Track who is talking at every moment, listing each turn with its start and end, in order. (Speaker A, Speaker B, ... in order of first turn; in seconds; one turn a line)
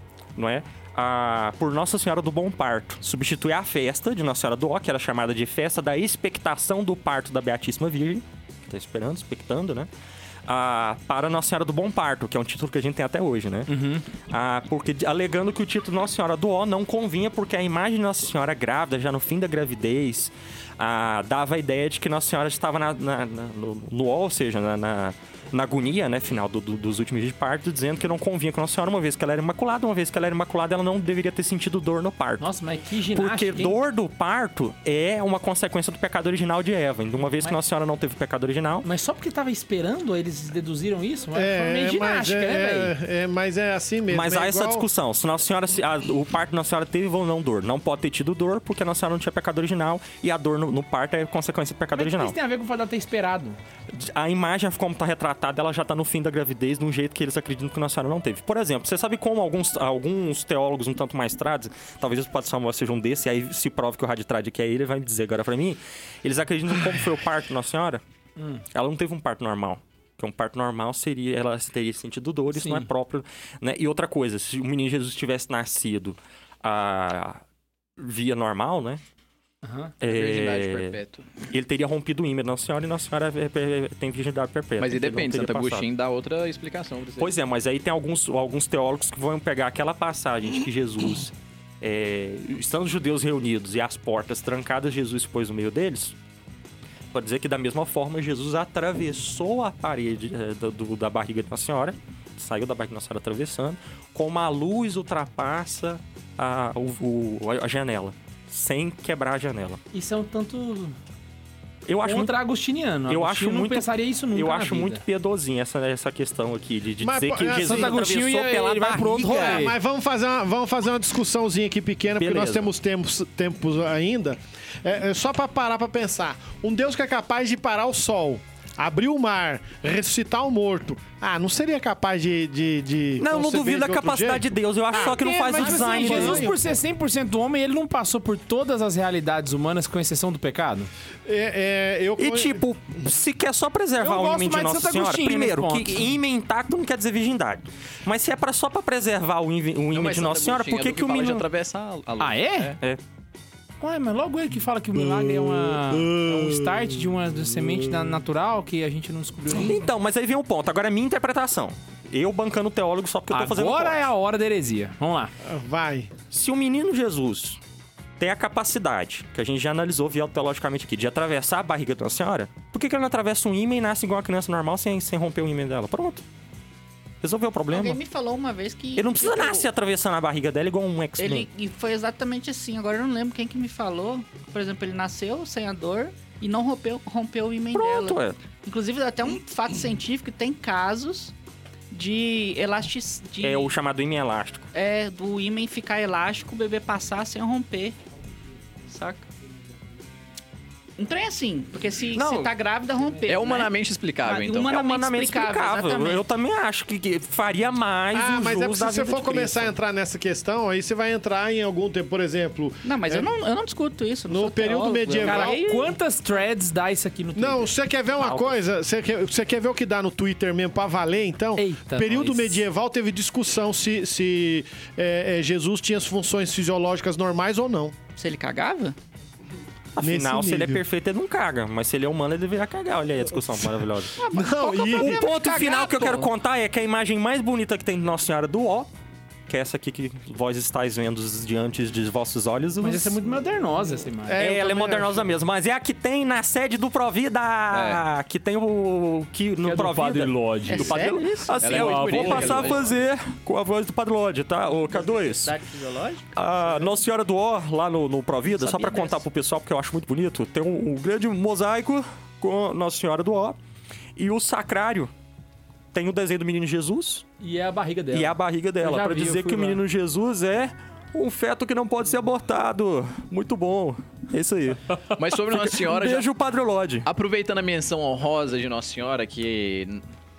Speaker A: 0.3-9.9
Speaker A: 10.5-13.7
Speaker B: 13.7-14.1
Speaker A: 14.3-32.5
Speaker B: 32.4-33.8
Speaker A: 33.1-38.9
Speaker B: 38.8-42.9
Speaker C: 41.3-44.9
Speaker A: 44.1-52.4
Speaker B: 52.0-53.6
Speaker A: 53.9-68.0
Speaker B: 68.4-68.6
Speaker A: 68.7-77.4
Speaker B: 72.5-72.9
Speaker A: 78.0-79.0
Speaker B: 79.6-80.0
Speaker A: 80.0-81.0
Speaker D: 80.0-81.3
Speaker A: 81.5-85.9
Speaker D: 84.8-87.3
Speaker A: 87.2-96.2
Speaker A: 97.1-109.8
Speaker B: 109.9-111.0
Speaker A: 111.9-112.4
Speaker B: 112.0-115.0
Speaker A: 113.1-119.7
Speaker C: 117.0-118.1
Speaker B: 117.5-119.8
Speaker C: 119.2-136.7
Speaker A: 122.2-122.7
Speaker A: 133.2-136.5
Speaker B: 134.9-140.9
Speaker C: 141.2-142.6
Speaker A: 142.2-151.4
Speaker B: 144.0-146.2
Speaker D: 149.9-152.8
Speaker B: 152.2-152.7
Speaker B: 153.8-159.8
Speaker C: 155.0-157.0
Speaker A: 159.5-164.1
Speaker B: 163.3-165.3
Speaker C: 165.4-166.1
Speaker A: 166.3-167.6
Speaker A: 168.2-176.2
Speaker A: 177.2-178.0
Speaker E: 177.7-179.7
Speaker A: 179.0-181.5
Speaker E: 181.2-191.3
Speaker A: 187.7-188.4
Speaker E: 191.9-193.7
Speaker A: 193.4-194.7
Speaker E: 194.7-198.0
Speaker E: 198.9-199.3
Speaker E: 201.0-206.2
Speaker A: 202.2-202.5
Speaker D: 203.3-204.8
Speaker A: 204.7-209.7
Speaker C: 208.1-213.3
Speaker E: 212.8-215.9
Speaker C: 214.3-215.6
Speaker B: 215.2-217.7
Speaker C: 217.4-227.9
Speaker A: 218.2-218.6
Speaker B: 221.6-222.6
Speaker E: 228.2-229.0
Speaker A: 230.0-234.2
Speaker C: 230.0-230.8
Speaker E: 234.2-236.3
Speaker C: 234.3-235.2
Speaker A: 234.9-238.9
Speaker A: 239.5-243.2
Speaker B: 242.8-244.4
Speaker C: 244.3-245.3
Speaker A: 244.4-255.5
Speaker D: 247.7-248.0
Speaker B: 249.6-251.0
Speaker E: 250.7-251.5
Speaker B: 251.6-252.8
Speaker D: 251.6-252.9
Speaker E: 254.9-256.2
Speaker A: 256.3-263.6
Speaker E: 258.5-259.2
Speaker A: 264.2-265.1
Speaker A: 265.9-267.3
Speaker B: 267.4-269.8
Speaker A: 268.1-277.1
Speaker D: 275.1-276.3
Speaker D: 277.1-280.0